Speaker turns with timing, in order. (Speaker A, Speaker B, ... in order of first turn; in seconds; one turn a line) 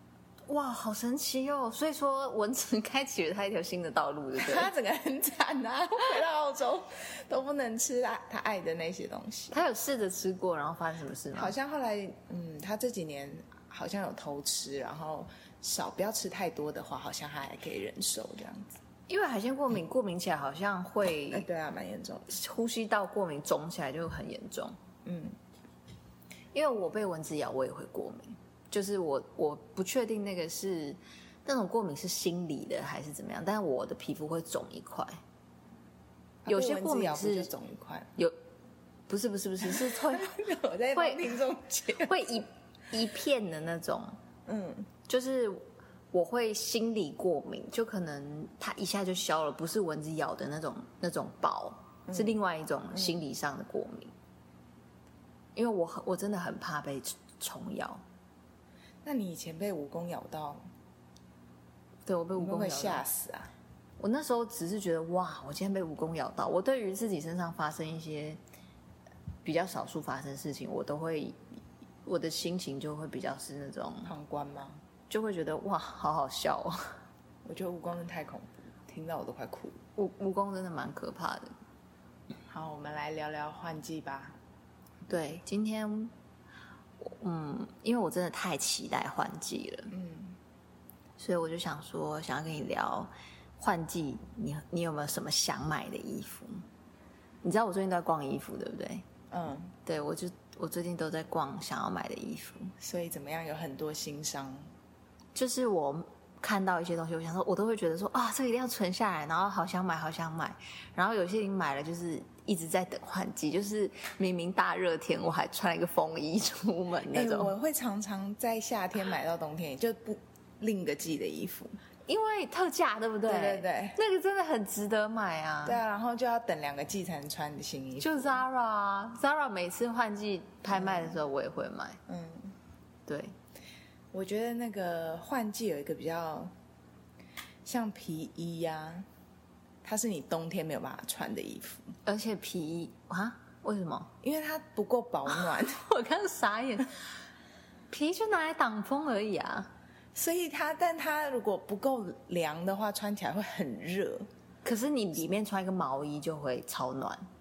Speaker A: 0.5-4.7
Speaker B: 4.4-9.6
Speaker A: 9.5-11.5
Speaker B: 11.3-18.8
Speaker A: 19.1-21.4
Speaker B: 21.3-22.3
Speaker A: 22.3-24.8
Speaker B: 25.0-25.4
Speaker A: 26.5-35.2
Speaker B: 36.4-38.1
Speaker A: 36.5-37.5
Speaker A: 39.1-40.4
Speaker B: 39.6-42.2
Speaker A: 40.9-41.4
Speaker A: 42.0-44.2
Speaker B: 44.5-44.9
Speaker A: 45.1-54.1
Speaker B: 52.1-52.3
Speaker A: 55.5-58.0
Speaker B: 59.0-60.6
Speaker A: 62.0-63.0
Speaker B: 62.3-63.5
Speaker A: 64.0-68.4
Speaker A: 69.4-71.4
Speaker A: 72.0-74.1
Speaker B: 74.0-74.8
Speaker A: 75.1-77.0
Speaker B: 77.4-79.8
Speaker A: 80.0-81.5
Speaker B: 82.5-84.4
Speaker A: 85.1-86.1
Speaker A: 87.0-89.9
Speaker B: 89.9-90.4
Speaker A: 91.2-96.6
Speaker A: 97.4-99.0
Speaker B: 99.3-99.7
Speaker A: 99.8-102.7
Speaker B: 102.8-104.7
Speaker A: 105.3-117.5
Speaker B: 117.1-121.8
Speaker A: 122.1-125.8
Speaker B: 123.2-124.0
Speaker B: 125.6-128.3
Speaker A: 128.0-132.0
Speaker B: 130.7-131.2
Speaker B: 132.1-132.6
Speaker A: 133.1-133.3
Speaker B: 134.1-136.5
Speaker B: 137.6-139.1
Speaker B: 139.8-141.9
Speaker A: 142.1-144.1
Speaker B: 144.2-145.9
Speaker A: 145.5-147.0
Speaker A: 147.9-149.7
Speaker B: 150.1-154.3
Speaker A: 154.6-157.3